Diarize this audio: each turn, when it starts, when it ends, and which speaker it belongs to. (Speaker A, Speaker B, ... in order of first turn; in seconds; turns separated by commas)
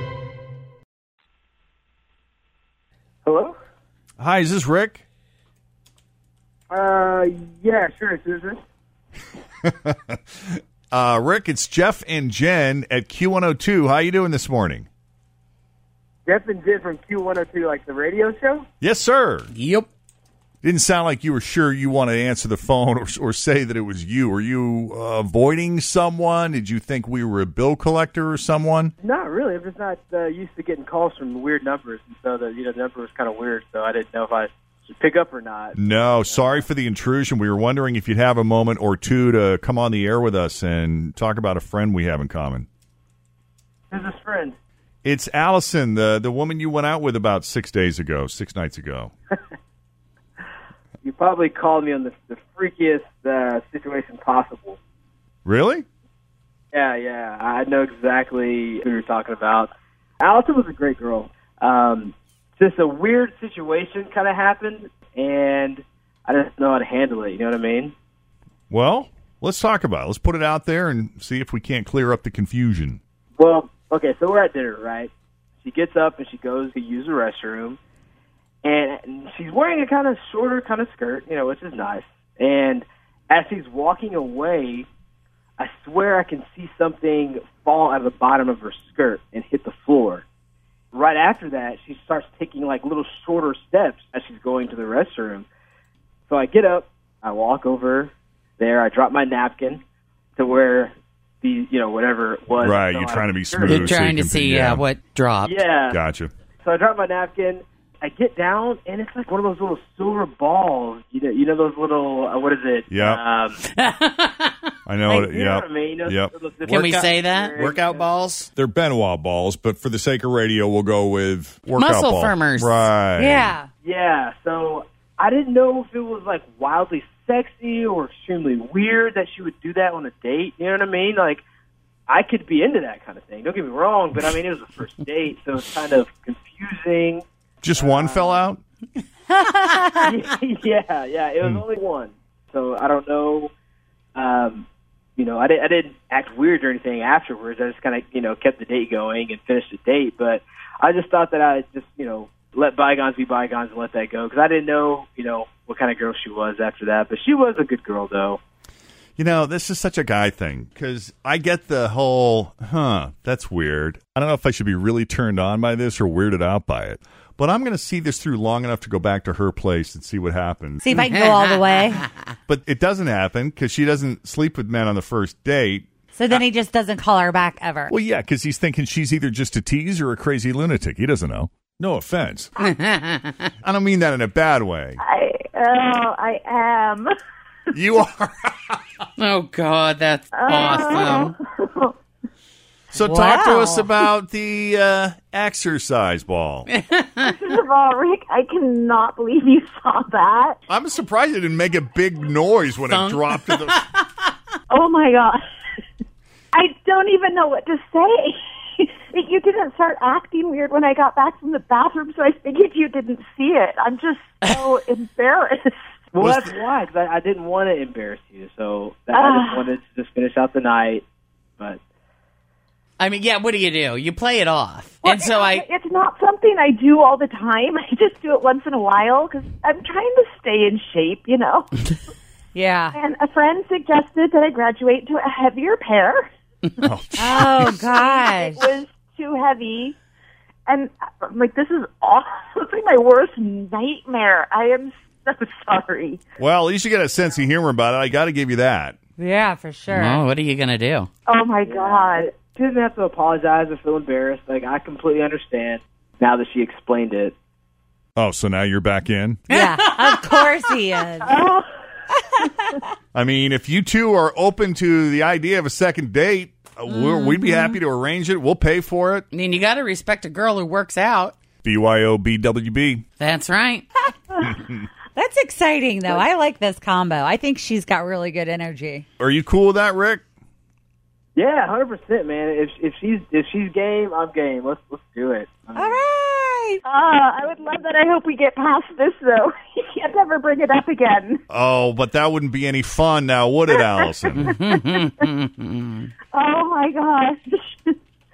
Speaker A: 3.2-3.5, Speaker B: 4.2-5.0, Speaker A: 6.7-8.6, Speaker B: 9.6-14.9, Speaker A: 16.2-18.6, Speaker B: 18.8-19.5, Speaker C: 19.5-19.9, Speaker B: 20.6-28.9, Speaker A: 29.0-36.6, Speaker B: 35.8-42.7, Speaker A: 43.9-44.5, Speaker B: 45.0-49.1, Speaker A: 51.0-54.8, Speaker B: 55.4-55.8, Speaker A: 56.7-67.9, Speaker B: 68.7-73.0, Speaker A: 73.4-75.1, Speaker A: 75.6-77.8, Speaker A: 78.6-84.9, Speaker A: 85.6-90.2, Speaker A: 90.9-95.5, Speaker A: 96.3-99.8, Speaker A: 100.4-103.9, Speaker B: 102.6-104.8, Speaker C: 103.6-105.7, Speaker A: 105.4-106.0, Speaker B: 105.9-106.3, Speaker A: 106.6-113.6, Speaker B: 112.9-113.2, Speaker C: 113.8-114.5, Speaker B: 114.8-116.3, Speaker A: 115.1-118.1, Speaker C: 116.7-118.5, Speaker B: 118.5-123.5, Speaker C: 121.8-122.8, Speaker D: 123.2-123.7, Speaker A: 123.8-131.4, Speaker A: 132.1-138.4, Speaker B: 137.6-138.6, Speaker D: 139.4-140.0, Speaker A: 140.0-143.5, Speaker A: 144.2-144.6, Speaker A: 145.2-158.4, Speaker B: 159.2-170.8, Speaker D: 170.8-172.1, Speaker C: 171.7-172.0, Speaker B: 172.5-176.4, Speaker D: 176.1-177.9, Speaker B: 177.9-182.5, Speaker C: 182.6-183.3, Speaker B: 183.6-185.0, Speaker E: 185.0-187.1, Speaker B: 187.7-188.8, Speaker C: 189.2-191.3, Speaker E: 190.3-191.9, Speaker B: 192.9-196.7, Speaker D: 193.0-193.9, Speaker C: 196.7-197.2, Speaker E: 197.2-200.6, Speaker B: 200.7-203.8, Speaker C: 202.8-204.0, Speaker E: 204.7-205.4, Speaker E: 206.5-215.7, Speaker A: 216.1-221.0, Speaker E: 219.1-219.7, Speaker C: 223.0-225.6, Speaker E: 225.0-231.9, Speaker D: 232.5-232.9, Speaker E: 232.9-236.8, Speaker B: 236.8-237.9, Speaker D: 237.2-238.7, Speaker E: 237.9-239.9, Speaker E: 240.7-246.2, Speaker B: 246.4-249.0, Speaker D: 249.2-250.2, Speaker C: 249.9-251.1, Speaker E: 251.2-252.3, Speaker A: 251.7-257.3, Speaker B: 258.1-259.4, Speaker C: 259.5-260.5, Speaker D: 259.5-261.4, Speaker E: 261.2-261.6, Speaker D: 262.4-262.8, Speaker B: 263.1-269.2, Speaker D: 266.9-267.8, Speaker C: 269.3-271.3, Speaker B: 271.6-273.0, Speaker C: 273.2-273.8, Speaker B: 274.5-274.8, Speaker D: 275.1-279.0, Speaker B: 279.2-280.2, Speaker A: 281.4-286.0, Speaker D: 285.8-286.8, Speaker E: 286.8-291.4, Speaker B: 291.5-294.5, Speaker C: 294.4-296.1, Speaker E: 296.3-297.9